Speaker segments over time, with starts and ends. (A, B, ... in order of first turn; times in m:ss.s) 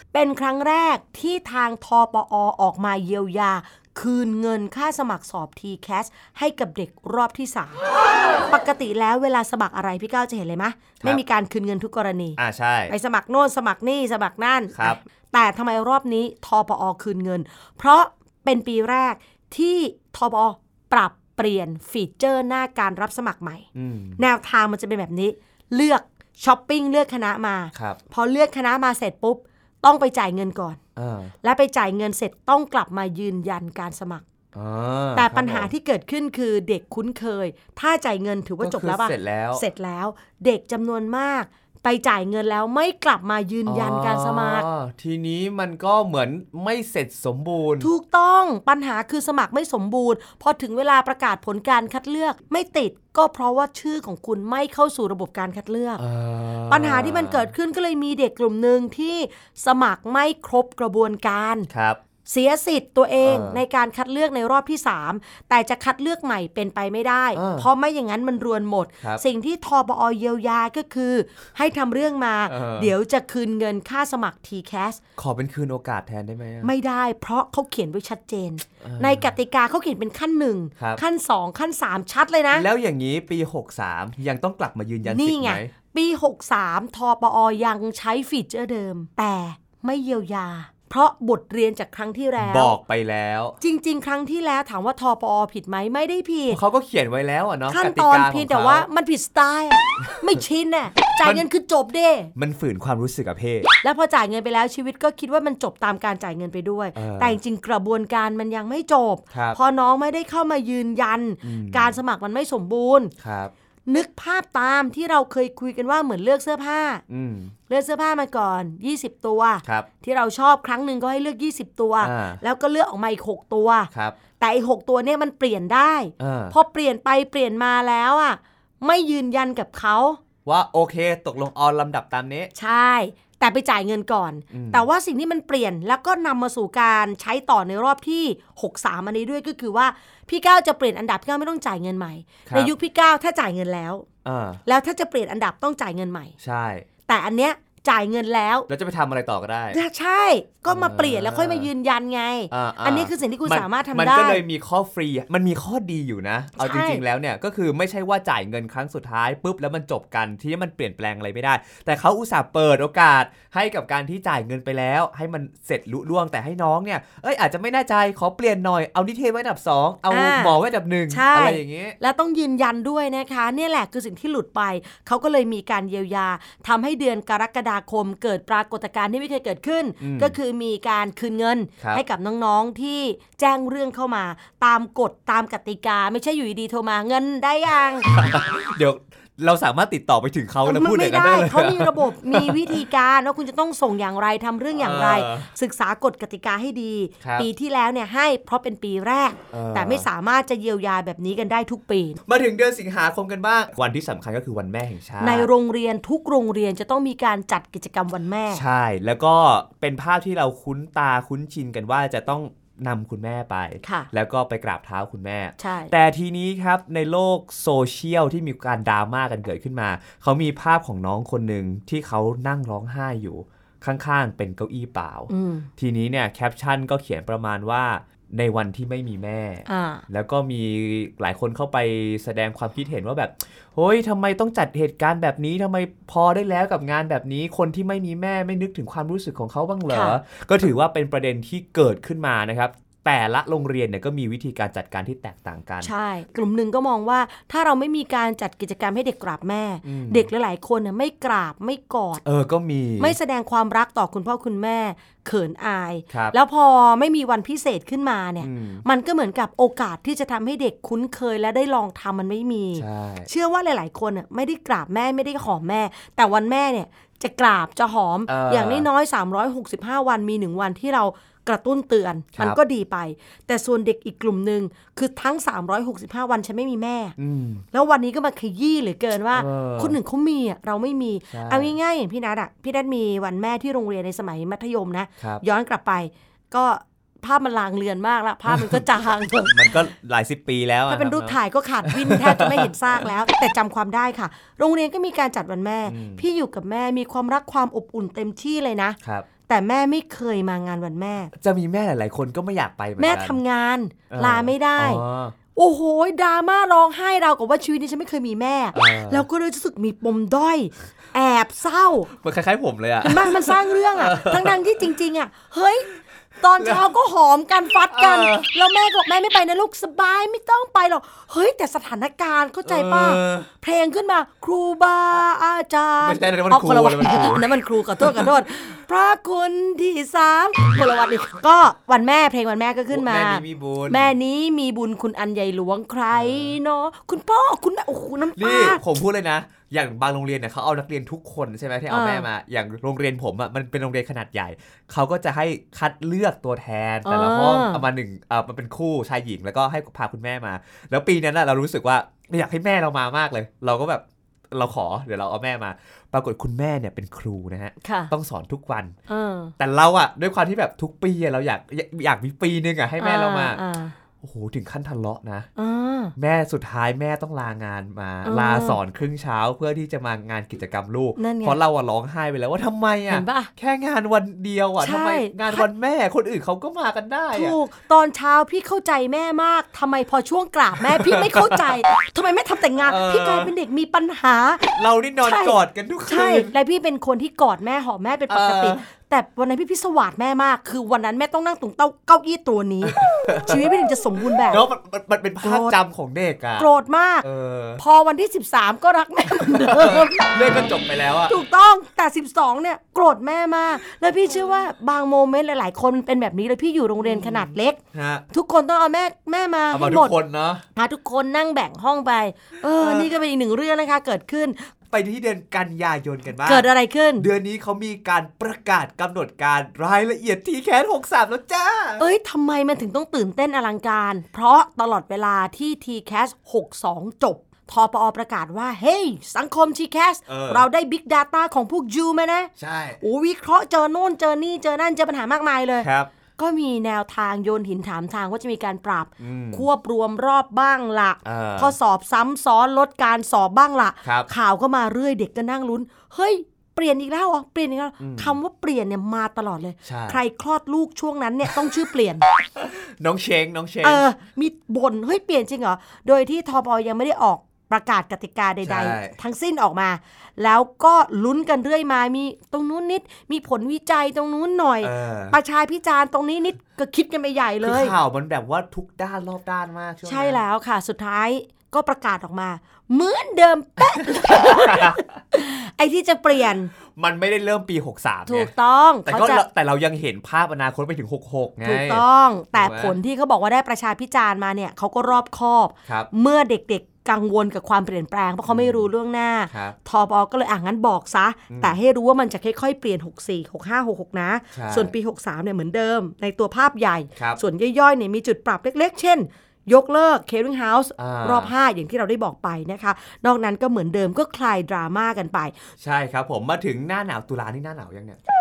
0:00.1-0:07.9 A
0:08.4-0:23.6 A
0:12.4-0:12.9 B
0:14.7-0:15.0 B
0:23.7-0:24.2 B
0:24.2-0:30.8 A
0:27.7-0:28.0 B
0:31.0-0:31.3 B
0:31.4-0:34.2 A
0:34.5-0:35.7 B
0:35.1-0:44.6 A
0:38.6-0:39.6 B
0:43.6-0:47.9 B
0:47.8-0:56.0 A
0:56.0-0:57.5 B
0:56.7-1:01.7 A
1:01.7-1:02.0 B
1:02.2-1:15.0 A
1:03.2-1:03.6 B
1:07.3-1:07.7 B
1:12.5-1:12.9 B
1:15.2-1:16.7 B
1:16.6-1:22.7 A
1:18.8-1:19.3 B
1:22.5-1:25.7 B
1:25.0-1:32.7 A
1:32.4-1:33.6 B
1:33.6-1:36.6 A
1:36.5-1:38.9 B
1:37.7-1:42.3 A
1:41.2-1:41.4 B
1:42.4-1:43.7 B
1:43.8-1:53.1 A
1:47.0-1:47.4 B
1:49.3-1:49.6 B
1:51.4-1:51.9 B
1:53.2-1:53.5 B
1:53.8-1:57.0 A
1:57.1-1:57.5 B
1:57.7-2:10.2 A
2:02.0-2:02.4 B
2:03.9-2:04.2 B
2:06.2-2:06.5 B
2:10.4-2:12.5 B
2:12.5-2:24.0 A
2:14.5-2:14.8 B
2:22.5-2:22.7 B
2:24.2-2:24.6 B
2:24.6-2:26.3 A
2:26.4-2:26.8 B
2:27.1-2:28.7 A
2:28.7-2:29.8 B
2:29.7-2:34.4 A
2:30.7-2:31.7 B
2:32.5-2:52.0 B
2:36.6-2:37.0 A
2:50.1-2:50.6 A
2:51.1-3:08.1 A
3:00.0-3:00.3 B
3:08.1-3:12.8 B
3:10.6-3:22.2 A
3:14.8-3:15.5 B
3:17.2-3:17.5 B
3:19.5-3:20.0 B
3:22.3-3:25.5 B
3:25.2-3:28.6 A
3:28.5-4:05.9 B
3:33.8-3:34.1 A
3:35.6-3:35.9 A
3:45.3-3:45.7 A
3:49.7-3:50.0 A
3:59.9-4:00.2 A
4:05.8-4:12.2 A
4:09.8-4:10.3 B
4:12.2-4:13.2 B
4:13.0-4:37.1 A
4:16.1-4:16.3 B
4:18.4-4:18.8 B
4:22.8-4:23.3 B
4:28.3-4:28.9 B
4:37.2-4:37.6 B
4:37.7-4:49.8 A
4:39.3-4:40.0 B
4:41.3-4:41.7 B
4:48.5-4:48.8 B
4:49.5-4:53.1 B
4:50.9-5:01.3 A
4:55.8-4:56.2 B
5:01.3-5:03.4 B
5:03.0-5:05.0 A
5:04.1-5:05.3 B
5:05.5-5:12.1 A
5:08.7-5:09.2 B
5:12.1-5:14.6 B
5:13.0-5:38.8 A
5:17.9-5:18.5 B
5:22.6-5:23.5 B
5:26.0-5:28.3 B
5:32.9-5:34.1 B
5:36.1-5:36.6 B
5:38.4-5:58.9 B
5:41.9-5:42.2 A
5:47.0-5:47.8 A
5:57.8-5:58.1 A
5:59.1-5:59.5 A
5:59.6-6:03.6 B
6:03.0-6:03.9 A
6:04.2-6:05.5 B
6:05.6-6:06.1 A
6:06.2-6:17.6 B
6:08.2-6:08.8 A
6:11.2-6:11.6 A
6:13.1-6:13.5 A
6:14.8-6:15.7 A
6:17.3-6:34.6 A
6:20.8-6:21.8 B
6:22.8-6:23.5 B
6:24.7-6:26.5 B
6:28.3-6:28.8 B
6:32.8-6:33.7 B
6:34.4-6:36.7 B
6:35.4-6:35.8 A
6:36.6-6:37.2 A
6:37.2-6:37.8 B
6:37.8-6:40.4 A
6:39.4-6:41.3 B
6:41.3-6:47.8 A
6:47.0-6:48.2 B
6:48.3-6:50.1 A
6:49.7-6:50.6 B
6:50.7-6:54.7 A
6:52.8-6:53.1 B
6:54.9-7:02.0 B
6:56.4-6:57.3 A
7:02.0-7:32.3 A
7:10.3-7:10.6 B
7:12.6-7:13.0 B
7:15.8-7:16.1 B
7:19.2-7:19.6 B
7:21.2-7:21.8 B
7:28.0-7:28.3 B
7:29.8-7:30.2 B
7:32.6-7:34.0 B
7:33.8-7:47.9 A
7:38.6-7:39.2 B
7:44.8-7:45.4 B
7:47.6-7:50.4 B
7:50.0-7:56.7 A
7:54.3-7:55.0 B
7:56.9-7:58.5 B
7:58.3-7:59.4 A
7:59.0-8:03.0 B
8:01.6-8:25.5 A
8:08.5-8:08.9 B
8:09.5-8:09.8 B
8:11.5-8:11.8 B
8:14.5-8:14.9 B
8:17.2-8:17.4 B
8:21.0-8:21.5 B
8:25.8-8:28.2 B